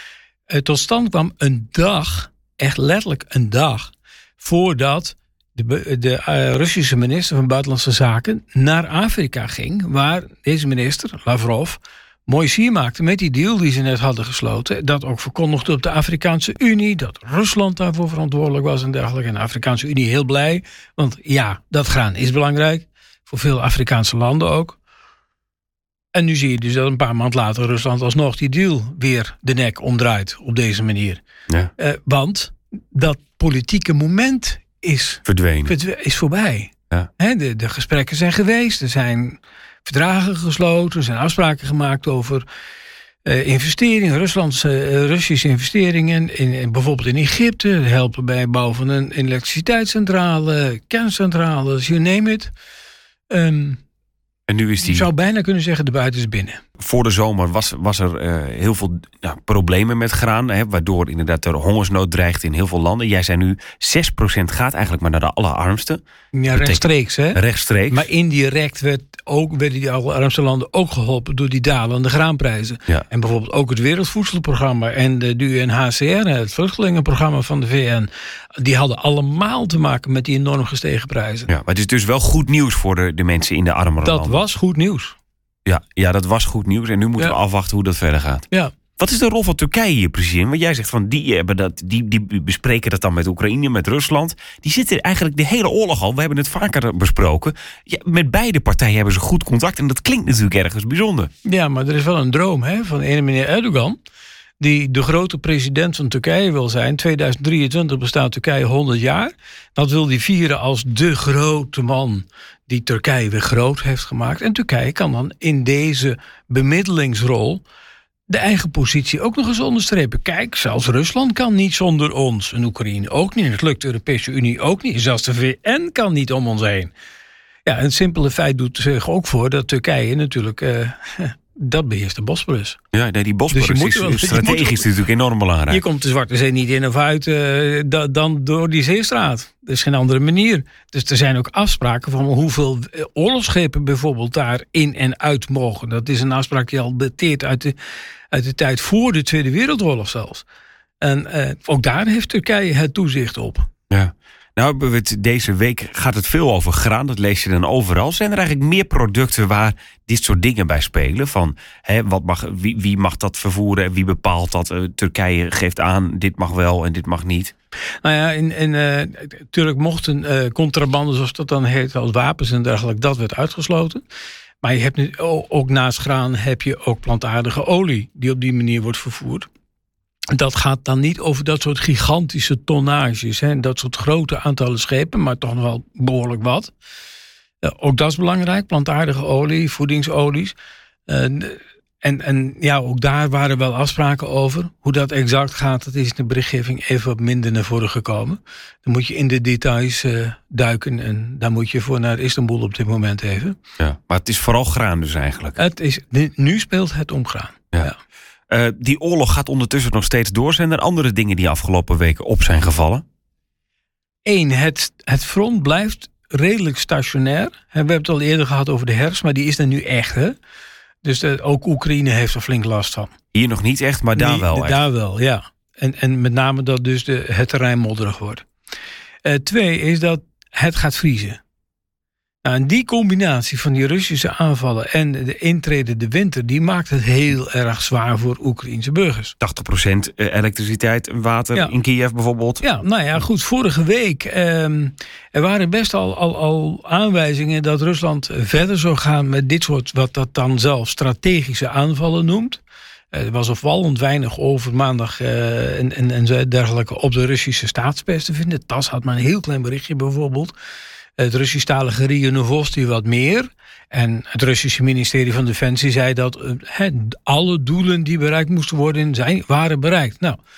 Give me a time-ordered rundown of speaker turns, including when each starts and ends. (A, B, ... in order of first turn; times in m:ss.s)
0:00.5-0:24.8 A
0:26.1-0:31.2 A
0:31.8-0:42.4 A
0:35.3-0:35.7 B
0:43.2-0:52.5 A
0:53.3-0:53.8 A
0:54.5-0:55.1 B
0:54.8-0:56.6 A
0:56.8-1:08.1 B
1:06.3-1:21.5 A
1:21.5-1:24.4 B
1:24.0-1:25.2 A
1:25.7-1:28.4 B
1:29.0-1:41.3 B
1:41.4-1:44.0 A
1:44.6-1:57.6 A
1:58.3-2:06.9 A
2:07.6-2:12.8 A
2:12.9-2:15.8 B
2:13.5-2:14.9 A
2:15.7-2:27.8 A
2:28.3-2:30.4 A
2:31.0-2:33.7 A
2:33.9-2:47.5 B
2:48.0-2:54.0 A
2:54.6-2:59.5 A
3:00.3-3:06.7 A
3:07.6-3:10.6 A
3:11.1-3:23.6 A
3:23.8-3:25.6 B
3:25.6-3:28.0 A
3:28.5-3:33.0 B
3:34.2-3:40.4 A
3:41.0-3:43.1 A
3:43.3-3:44.8 B
3:44.1-3:48.5 A
3:49.2-3:51.4 A
3:52.4-3:59.4 A
3:59.4-4:02.6 B
4:02.6-4:12.6 A
4:13.1-4:20.5 A
4:21.2-4:30.4 A